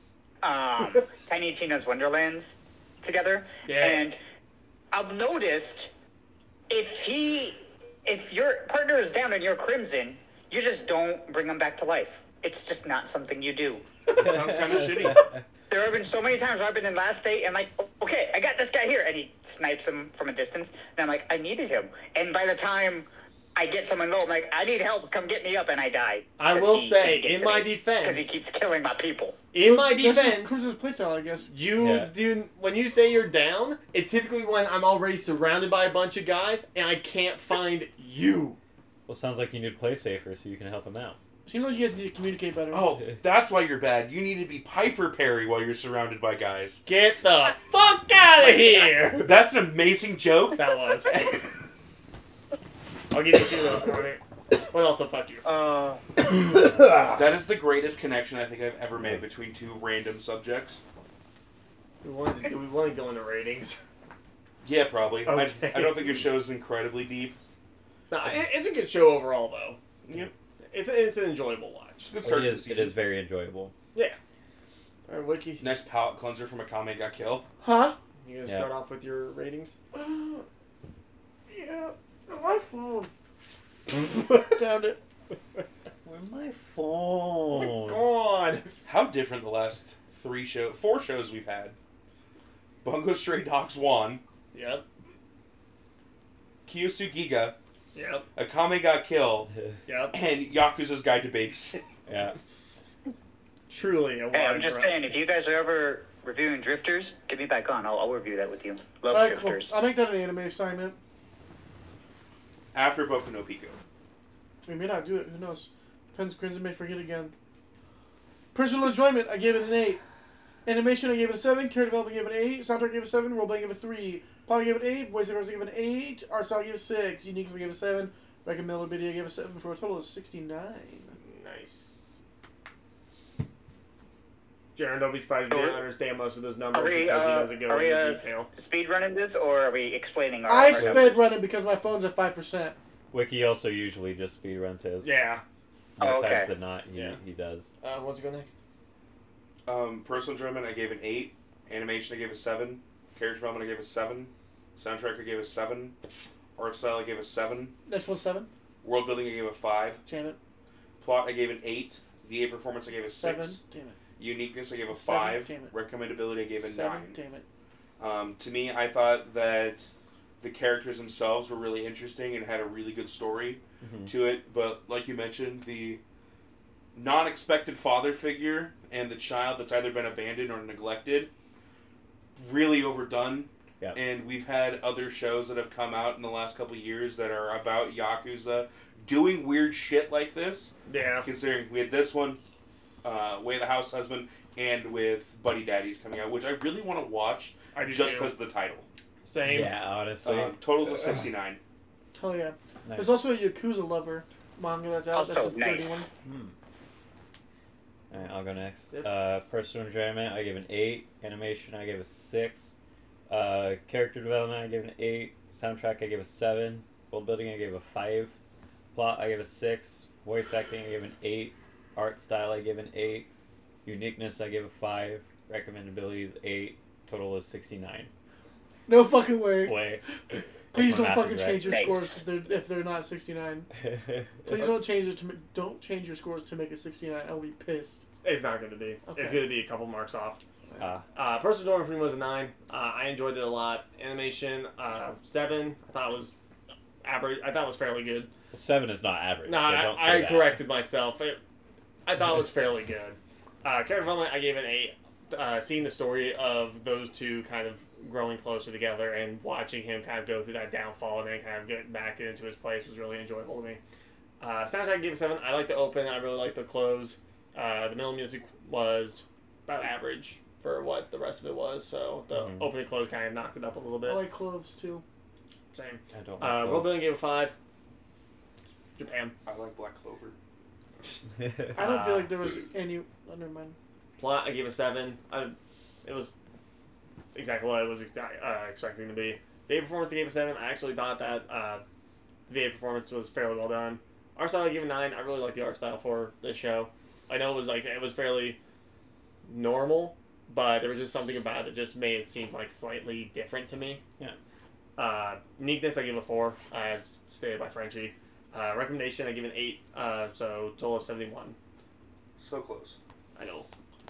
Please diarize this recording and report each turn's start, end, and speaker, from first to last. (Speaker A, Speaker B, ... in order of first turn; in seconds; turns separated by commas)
Speaker A: 0.4-4.2, Speaker B: 3.7-4.1, Speaker A: 4.9-5.9, Speaker A: 6.7-13.9, Speaker C: 14.1-15.3, Speaker A: 15.7-29.4, Speaker B: 26.4-28.4, Speaker B: 29.5-30.7, Speaker D: 29.6-31.5, Speaker B: 31.5-38.6, Speaker E: 31.8-32.1, Speaker E: 39.1-41.2, Speaker D: 41.5-42.9, Speaker C: 42.7-46.8, Speaker B: 46.9-49.3, Speaker C: 49.2-50.7, Speaker B: 50.6-51.4, Speaker B: 53.1-55.5, Speaker A: 55.5-56.0, Speaker C: 57.1-60.8, Speaker B: 62.0-63.8, Speaker C: 64.6-67.4, Speaker B: 65.2-66.3, Speaker B: 68.1-69.8, Speaker C: 70.1-70.3, Speaker B: 70.7-72.1, Speaker C: 72.0-73.0, Speaker E: 72.2-73.7, Speaker B: 75.1-75.7, Speaker C: 75.6-77.5, Speaker D: 77.6-78.0, Speaker B: 78.2-79.8, Speaker D: 79.9-80.5, Speaker D: 81.5-83.1, Speaker D: 84.3-85.0, Speaker E: 86.0-88.0, Speaker B: 87.5-88.8, Speaker C: 88.8-91.8, Speaker C: 92.8-94.2, Speaker B: 94.5-94.8, Speaker C: 96.7-97.6, Speaker B: 98.0-98.3, Speaker C: 98.4-99.5, Speaker B: 99.9-100.1, Speaker C: 100.1-101.8, Speaker E: 102.1-102.4, Speaker B: 103.7-105.0, Speaker A: 104.3-109.7, Speaker D: 109.1-111.0, Speaker C: 112.7-113.8, Speaker D: 114.7-117.3, Speaker D: 118.5-120.0, Speaker D: 120.7-131.2, Speaker B: 131.2-132.1, Speaker B: 134.8-138.5, Speaker A: 135.5-135.8, Speaker A: 136.7-141.3, Speaker D: 140.5-142.8, Speaker E: 140.8-141.1, Speaker E: 143.1-145.1, Speaker B: 145.0-145.4, Speaker E: 146.0-147.7, Speaker A: 146.0-146.5, Speaker B: 147.8-148.6, Speaker C: 149.7-156.0, Speaker C: 156.6-157.8, Speaker D: 157.9-158.5, Speaker C: 158.8-160.0, Speaker D: 160.1-160.4, Speaker C: 161.0-163.6, Speaker D: 163.2-164.0, Speaker C: 164.2-167.2, Speaker D: 164.9-165.7, Speaker D: 166.6-167.4, Speaker C: 168.0-176.0, Speaker E: 173.8-174.1, Speaker C: 176.9-181.3, Speaker C: 182.3-192.4, Speaker B: 190.9-191.3, Speaker C: 193.0-198.9, Speaker B: 197.7-198.3, Speaker B: 199.2-199.7, Speaker E: 199.4-200.6, Speaker C: 200.2-201.6, Speaker D: 202.2-206.1, Speaker E: 202.8-203.2, Speaker A: 205.1-206.1, Speaker E: 206.2-206.6, Speaker E: 208.1-212.7, Speaker E: 213.3-218.3, Speaker E: 218.9-223.3, Speaker E: 223.8-228.1, Speaker D: 228.9-230.0, Speaker E: 229.6-231.8, Speaker D: 230.7-233.7, Speaker A: 231.6-232.2, Speaker E: 233.8-234.6, Speaker D: 234.4-238.0, Speaker B: 238.2-240.4, Speaker D: 239.1-239.5, Speaker E: 240.8-241.0, Speaker B: 241.2-246.3, Speaker B: 247.0-248.3, Speaker E: 248.5-250.6, Speaker B: 249.5-251.4, Speaker B: 252.1-263.8, Speaker B: 264.4-274.2, Speaker E: 272.3-272.7, Speaker D: 274.0-275.0, Speaker B: 275.7-277.6, Speaker E: 276.1-277.1, Speaker B: 278.9-279.3, Speaker C: 279.5-280.4, Speaker E: 281.4-281.7, Speaker D: 281.7-283.8, Speaker B: 281.8-282.4, Speaker B: 284.2-286.3, Speaker B: 287.3-291.8, Speaker B: 292.5-298.6, Speaker B: 299.4-304.0, Speaker B: 305.0-311.6, Speaker C: 312.4-313.0, Speaker B: 313.4-313.7